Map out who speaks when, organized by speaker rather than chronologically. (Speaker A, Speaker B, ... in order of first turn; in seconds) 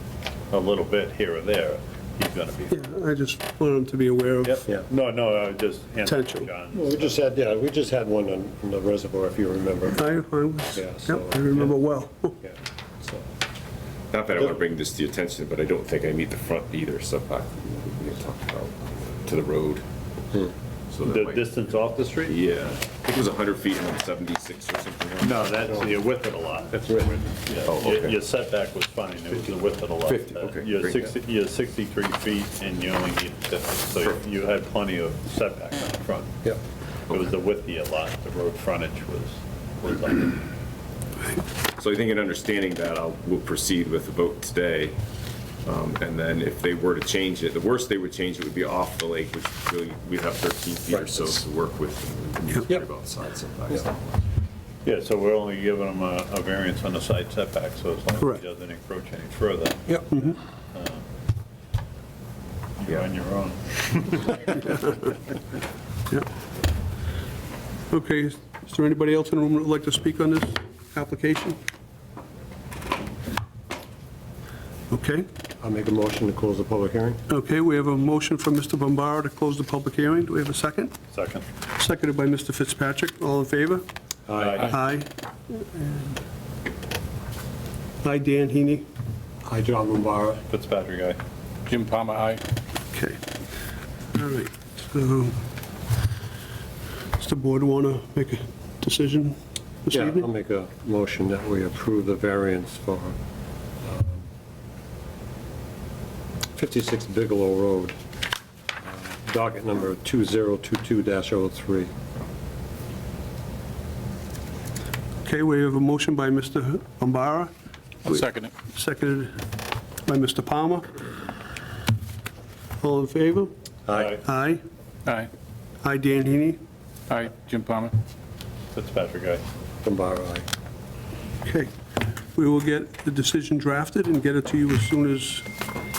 Speaker A: 0.5-2.8, 4.4-7.2, 21.0-22.4, 25.2-36.4, 37.1-40.4, 54.8-61.0, 62.8-65.0, 81.1-81.5, 84.3-84.8, 90.5-91.2, 123.9-124.2, 128.7-129.4
Speaker B: 2.7-4.6, 6.0-6.5, 10.0-12.4, 60.1-60.4, 67.9-71.6, 74.9-75.2, 77.3-81.0, 81.8-83.8, 84.6-86.2, 88.0-88.8, 92.9-93.2, 94.1-95.3, 97.2-100.2, 115.2-117.5, 118.1-119.4, 120.0-120.8, 122.8-123.5, 124.2-124.6, 125.8-126.6, 131.4-131.7, 132.3-135.5
Speaker C: 6.7-10.1, 10.7-11.7, 12.4-13.2, 75.6-77.2, 84.3-84.7, 89.5-90.4, 99.9-103.2, 103.8-104.2, 106.5-107.9, 108.9-111.9, 123.9-124.2, 129.8-130.4
Speaker D: 14.1-19.8, 20.9-21.6, 22.2-25.8, 27.6-28.2, 30.1-31.1, 41.7-45.0, 45.6-54.2
Speaker E: 91.7-92.4, 118.0-118.5, 127.1-127.9